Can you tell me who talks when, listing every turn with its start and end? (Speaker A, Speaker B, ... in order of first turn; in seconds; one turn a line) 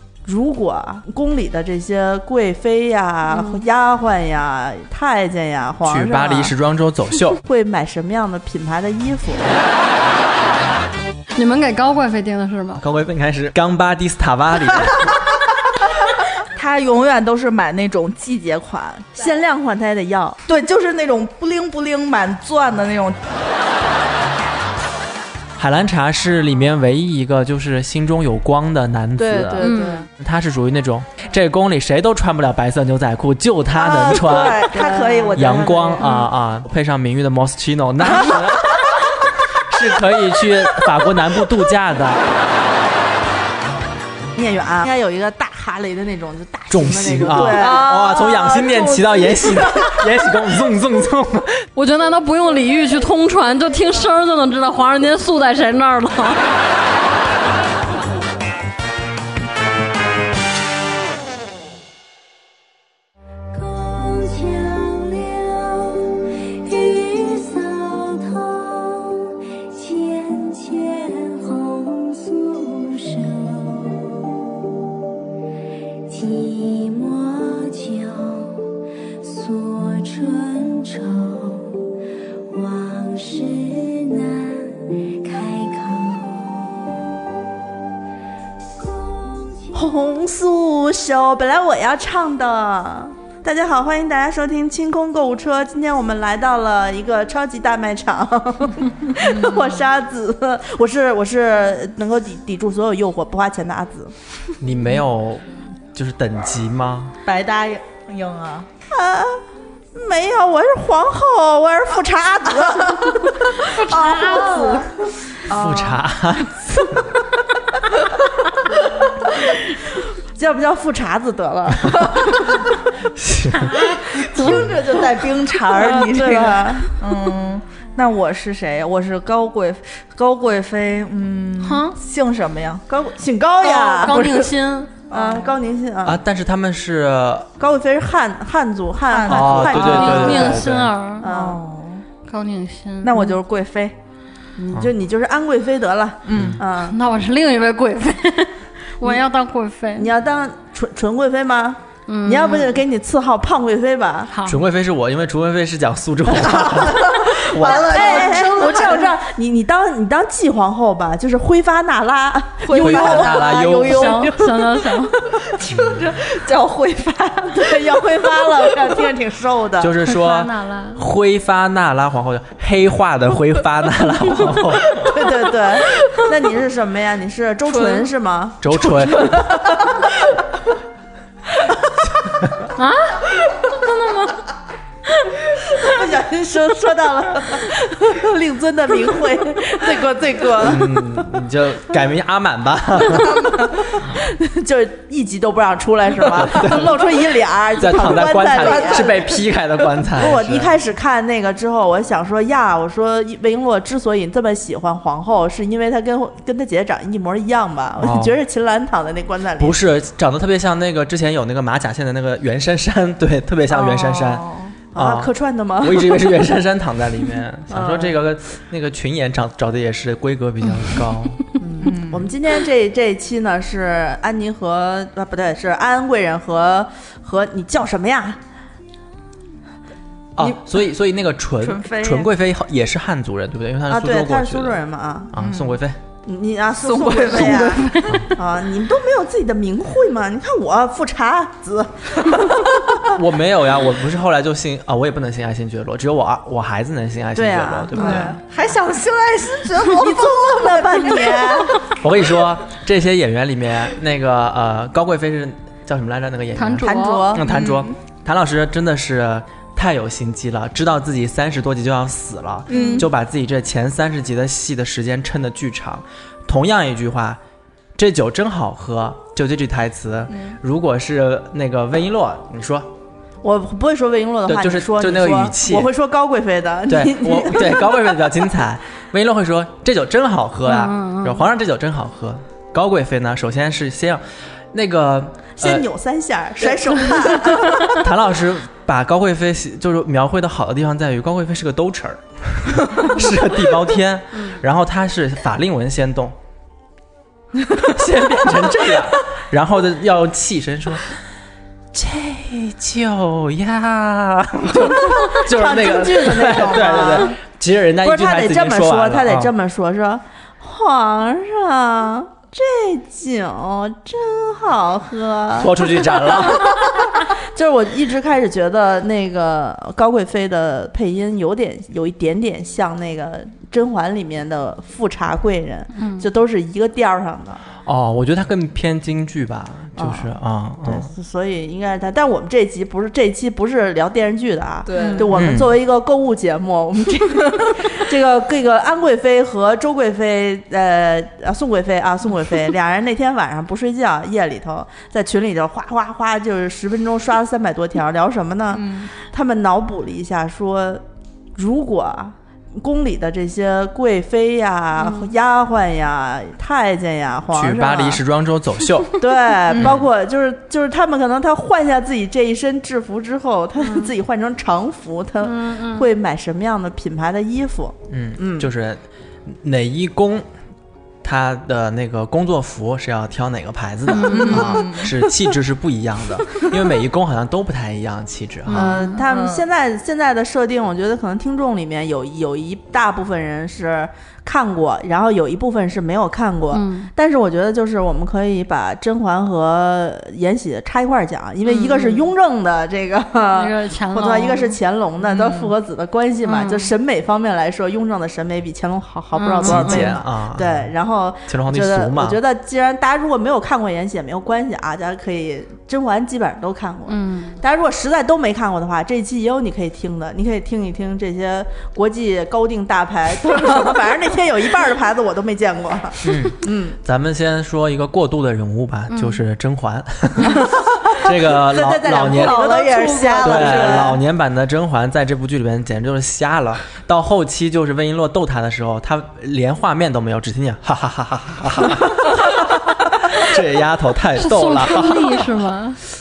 Speaker A: 0.2-6.5
Speaker B: 3.3-3.6
Speaker C: 5.8-7.4
Speaker A: 7.4-9.5
Speaker B: 11.3-12.8
Speaker C: 12.8-15.2
Speaker D: 16.5-19.2
Speaker A: 19.1-20.4
Speaker D: 20.5-23.2
Speaker C: 25.6-34.7
Speaker D: 29.2-30.1
Speaker B: 29.6-30.1
Speaker D: 33.7-36.2
Speaker A: 34.7-35.7
Speaker C: 35.4-42.2
Speaker A: 44.4-48.0
Speaker C: 46.7-51.7
Speaker D: 47.3-50.0
Speaker B: 51.8-56.5
Speaker E: 63.5-74.3
Speaker E: 76.1-81.8
Speaker E: 82.5-87.0
Speaker E: 88.8-89.8
Speaker A: 89.7-104.1
Speaker D: 99.2-99.8
Speaker C: 104.6-107.2
Speaker D: 107.2-108.7
Speaker A: 108.9-109.4
Speaker A: 110.0-113.5
Speaker B: 113.6-114.9
Speaker D: 113.9-114.9
Speaker D: 115.5-116.0
Speaker C: 115.5-117.1
Speaker A: 119.5-122.7
Speaker C: 123.1-124.8
Speaker B: 123.6-124.0
Speaker D: 124.2-132.8
Speaker A: 124.3-127.0
Speaker B: 131.6-132.0
Speaker A: 132.9-134.3
Speaker B: 133.7-134.9
Speaker D: 134.0-134.5
Speaker A: 135.1-136.2
Speaker D: 135.1-135.5
Speaker C: 136.0-137.5
Speaker A: 137.6-140.6
Speaker D: 139.1-140.7
Speaker C: 139.3-140.9
Speaker B: 139.7-141.3
Speaker A: 141.2-141.6
Speaker D: 141.2-142.1
Speaker B: 142.3-143.4
Speaker D: 143.0-143.9
Speaker A: 144.7-147.0
Speaker D: 146.2-146.6
Speaker C: 146.3-146.6
Speaker B: 146.8-150.1
Speaker A: 150.0-154.3
Speaker B: 152.1-152.8
Speaker B: 154.3-154.6
Speaker C: 154.5-158.5
Speaker D: 156.6-159.2
Speaker A: 157.4-163.5
Speaker D: 162.6-169.1
Speaker C: 162.7-164.2
Speaker B: 163.8-165.2
Speaker C: 165.7-166.1
Speaker A: 167.6-170.0
Speaker C: 169.8-175.1
Speaker B: 170.1-171.0
Speaker A: 175.0-179.7
Speaker D: 177.8-178.1
Speaker C: 178.6-179.6
Speaker D: 179.2-180.1
Speaker B: 182.8-184.4
Speaker A: 185.6-190.9
Speaker C: 190.6-194.1
Speaker A: 194.0-199.2
Speaker C: 196.3-197.2
Speaker C: 197.8-200.7
Speaker D: 198.6-199.4
Speaker A: 200.2-209.8
Speaker C: 208.0-208.4
Speaker C: 209.6-221.4
Speaker D: 213.7-214.8
Speaker A: 214.9-216.3
Speaker A: 217.7-218.1
Speaker A: 221.6-228.4
Speaker D: 221.8-222.3
Speaker C: 230.4-234.8
Speaker D: 231.6-232.3
Speaker A: 233.9-235.3
Speaker C: 235.3-236.0
Speaker D: 235.3-235.8
Speaker A: 236.2-242.8
Speaker D: 236.8-238.0
Speaker B: 237.2-238.3
Speaker C: 243.1-248.4
Speaker A: 247.3-248.4
Speaker D: 247.9-251.8
Speaker A: 250.0-251.8
Speaker C: 252.0-267.4
Speaker B: 256.6-257.4
Speaker A: 256.8-257.5
Speaker D: 257.4-257.9
Speaker D: 262.7-263.1
Speaker B: 262.7-263.0
Speaker C: 268.0-272.9
Speaker A: 273.4-278.2
Speaker C: 274.5-275.9
Speaker C: 276.9-285.9
Speaker B: 280.7-281.4
Speaker A: 285.6-287.9
Speaker C: 287.5-296.4
Speaker C: 297.8-301.1
Speaker C: 301.9-309.5
Speaker A: 305.2-307.4
Speaker A: 308.0-327.6
Speaker C: 315.6-316.8
Speaker B: 326.0-326.2
Speaker C: 327.9-331.1
Speaker A: 330.0-351.0
Speaker D: 334.9-335.3
Speaker C: 335.3-335.7
Speaker D: 348.7-349.1
Speaker A: 351.6-358.2
Speaker B: 355.0-355.3
Speaker C: 357.5-360.1
Speaker A: 359.2-368.7
Speaker B: 363.8-364.1
Speaker B: 365.4-366.1
Speaker C: 368.1-370.4
Speaker C: 371.2-378.9
Speaker B: 374.1-374.8
Speaker D: 374.2-375.1
Speaker B: 378.7-379.2
Speaker A: 378.7-417.0
Speaker D: 379.1-379.6
Speaker B: 386.7-387.1
Speaker B: 391.6-392.3
Speaker B: 393.6-394.8
Speaker D: 395.2-395.7
Speaker B: 396.4-396.9
Speaker B: 399.4-400.2
Speaker C: 399.6-400.9
Speaker C: 401.5-402.4
Speaker B: 407.1-407.6
Speaker C: 416.2-422.7
Speaker B: 419.1-419.4
Speaker A: 421.2-424.2
Speaker D: 422.1-424.1
Speaker C: 423.4-435.5
Speaker B: 434.4-436.0